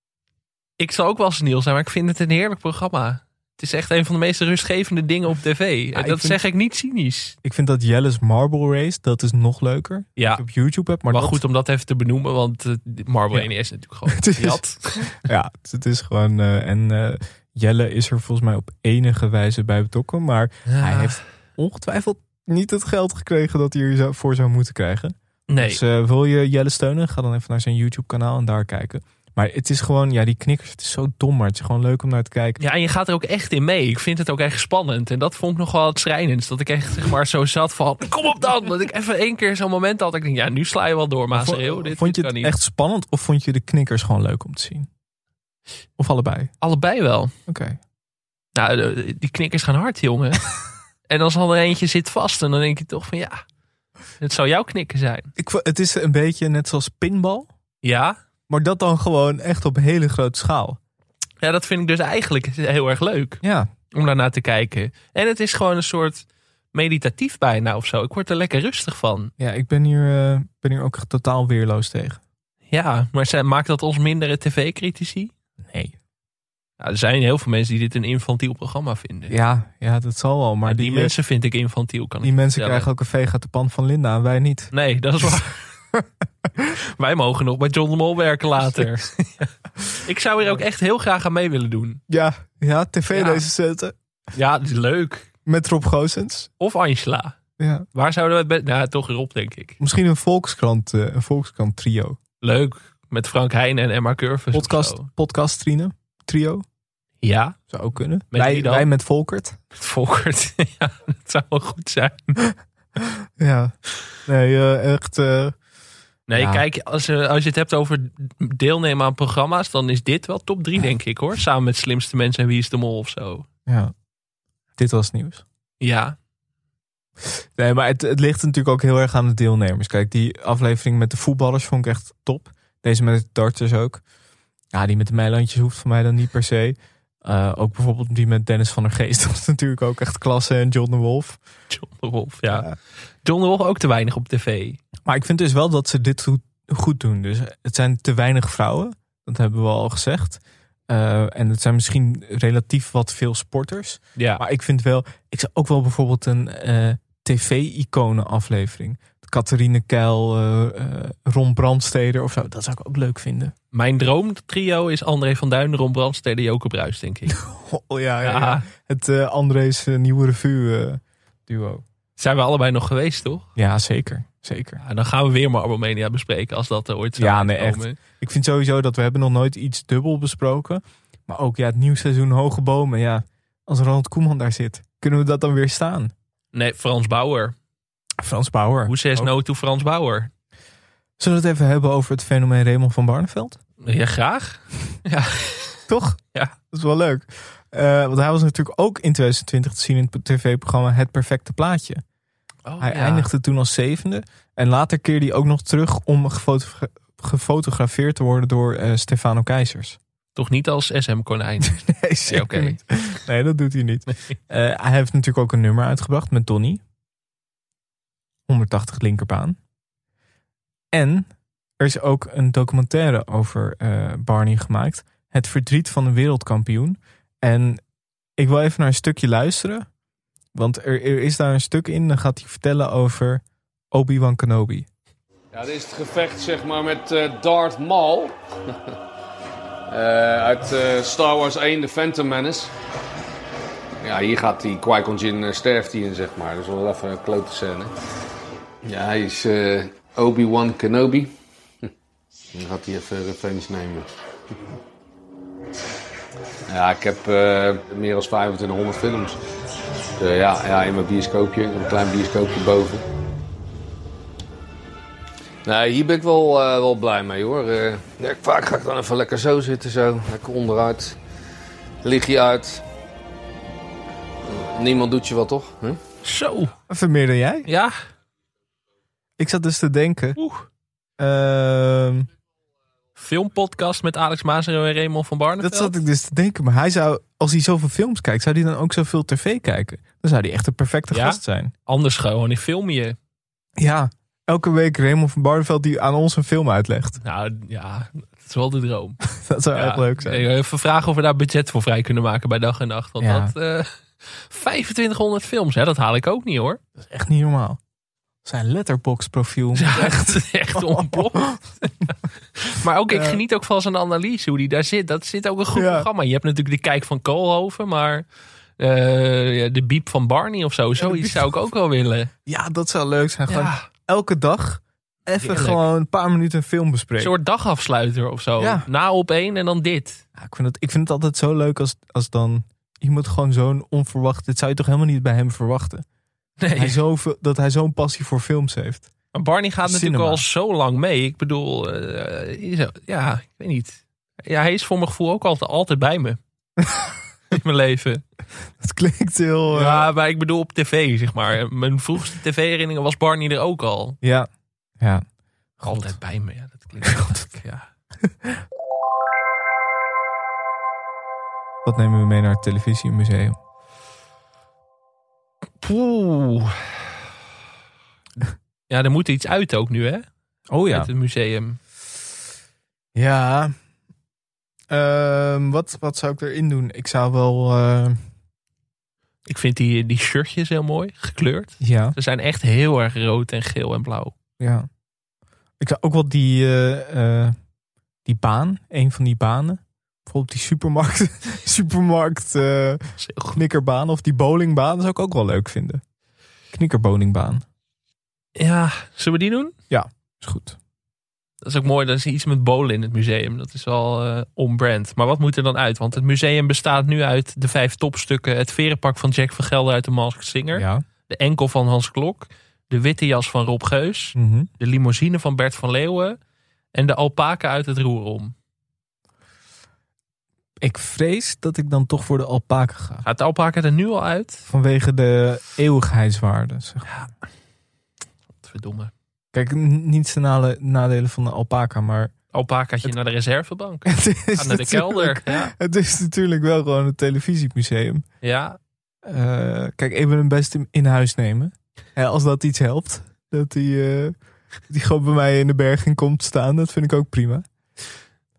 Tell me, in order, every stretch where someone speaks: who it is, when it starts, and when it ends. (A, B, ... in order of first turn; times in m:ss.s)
0:00.8-0:07.4 A
0:05.9-0:06.4 B
0:07.4-0:11.4 B
0:10.2-0:10.4 A
0:11.1-0:15.1 A
0:14.1-0:32.6 B
0:20.7-0:21.2 A
0:25.5-0:25.8 A
0:32.6-0:42.5 A
0:41.3-0:44.9 B
0:46.0-0:46.5 B
0:46.6-0:47.3 A
0:47.5-0:47.8 B
0:48.6-0:50.5 A
0:51.1-0:53.4 A
0:54.2-0:55.3 A
0:55.4-0:57.5 B
0:57.8-0:58.2 A
0:58.5-1:00.8 B
1:01.4-1:03.4 A
1:03.4-1:03.7 B
1:03.9-1:09.3 A
1:09.4-1:12.2 B
1:12.7-1:15.3 A
1:15.6-1:16.0 B
1:16.8-1:19.3 A
1:19.3-1:21.1 B
1:20.6-1:22.9 A
1:22.2-1:24.7 B
1:24.7-1:25.6 A
1:26.8-1:32.0 A
1:32.1-1:33.9 B
1:33.1-1:33.4 A
1:34.3-1:35.3 A
1:35.4-1:36.5 B
1:36.6-1:37.4 A
1:37.6-1:37.9 B
1:37.9-1:39.8 A
1:39.8-1:42.2 B
1:42.4-1:45.1 A
1:44.5-1:46.6 B
1:47.2-1:47.6 A
1:47.7-1:49.6 B
1:48.3-1:48.9 A
1:49.7-1:52.4 A
1:52.4-1:53.7 B
1:54.2-1:55.6 B
1:56.3-2:03.4 A
1:56.3-1:56.6 B
2:03.7-2:03.9 B
2:04.8-2:05.4 B
2:05.8-2:06.2 A
2:07.3-2:14.0 B
2:14.7-2:21.4 B
2:21.7-2:22.7 A
2:22.5-2:22.7 B
2:23.2-2:24.8 A
2:25.0-2:43.5 B
2:34.2-2:34.4 A
2:43.7-2:47.4 A
2:47.3-2:51.8 B
2:48.2-2:48.6 A
2:52.2-2:53.4 A
2:53.6-2:54.8 B
2:54.8-2:58.0 A
2:57.2-3:06.1 B
3:06.5-3:07.5 A
3:08.2-3:09.3 B
3:08.9-3:10.3 A
3:11.2-3:13.6 B
3:13.8-3:15.8 A
3:15.9-3:22.0 B
3:22.7-3:23.3 A
3:22.8-3:30.0 B
3:30.4-3:32.8 A
3:31.6-3:36.8 B
3:38.5-3:39.6 B
3:40.9-3:47.8 B
3:48.4-3:49.9 B
3:50.5-3:54.9 B
3:55.5-3:58.3 C
3:59.9-4:02.7 C
4:04.0-4:07.9 C
4:08.8-4:11.3 C
4:12.5-4:14.1 C
4:16.7-4:19.4 C
4:20.2-4:23.0 C
4:25.6-4:31.2 C
4:32.0-4:32.8 C
4:34.5-4:36.0 C
4:36.2-4:36.7 A
4:36.9-4:37.7 B
4:37.7-4:37.9 A
4:39.4-4:40.4 B
4:40.4-4:40.7 A
4:41.2-4:42.3 B
4:43.2-4:46.0 A
4:45.6-4:51.7 B
4:51.1-4:53.2 A
4:53.8-4:57.2 B
4:57.2-4:59.2 A
4:59.3-5:00.4 B
4:59.7-5:06.8 A
5:03.2-5:03.5 B
5:07.0-5:07.8 B
5:08.4-5:11.7 B
5:09.7-5:11.9 A
5:12.6-5:18.2 A
5:13.1-5:13.4 B
5:15.7-5:16.1 B
5:18.8-5:22.3 A
5:21.0-5:21.5 B
5:22.4-5:27.3 B
5:23.5-5:23.9 A
5:25.4-5:25.8 A
5:27.2-5:30.2 A
5:28.6-5:28.9 B
5:30.4-5:36.0 B
5:36.6-5:37.0 A
5:36.8-5:39.1 B
5:39.3-5:46.4 A
5:39.8-5:40.4 B
5:46.8-5:47.1 B
5:47.5-5:48.2 A
5:48.8-5:50.1 B
5:49.7-5:54.2 A
5:54.2-5:54.5 B
5:55.0-5:55.2 B
5:55.8-5:56.2 B
5:55.8-5:57.8 A
5:57.0-5:57.5 B
6:01.8-6:03.6 B
6:05.8-6:07.0 A
6:08.9-6:10.2 A
6:10.7-6:11.1 B
6:10.9-6:11.8 A
6:13.1-6:13.7 B
6:14.9-6:18.2 B
6:19.4-6:24.3 A
6:21.8-6:22.2 B
6:24.6-6:24.9 B
6:25.8-6:27.5 B
6:28.2-6:36.0 B
6:33.2-6:33.6 A
6:36.7-6:37.6 B
6:38.6-6:39.7 A
6:39.9-6:40.8 B
6:41.6-6:56.4 A
6:50.7-6:51.0 B
6:54.3-6:54.7 B
6:56.9-6:58.5 A
7:00.8-7:03.2 B
7:03.2-7:04.7 A
7:04.7-7:07.1 B
7:08.6-7:09.1 A
7:09.5-7:12.3 B
7:12.5-7:15.7 A
7:14.0-7:18.2 B
7:18.4-7:18.8 A
7:19.2-7:24.3 B
7:24.9-7:27.6 B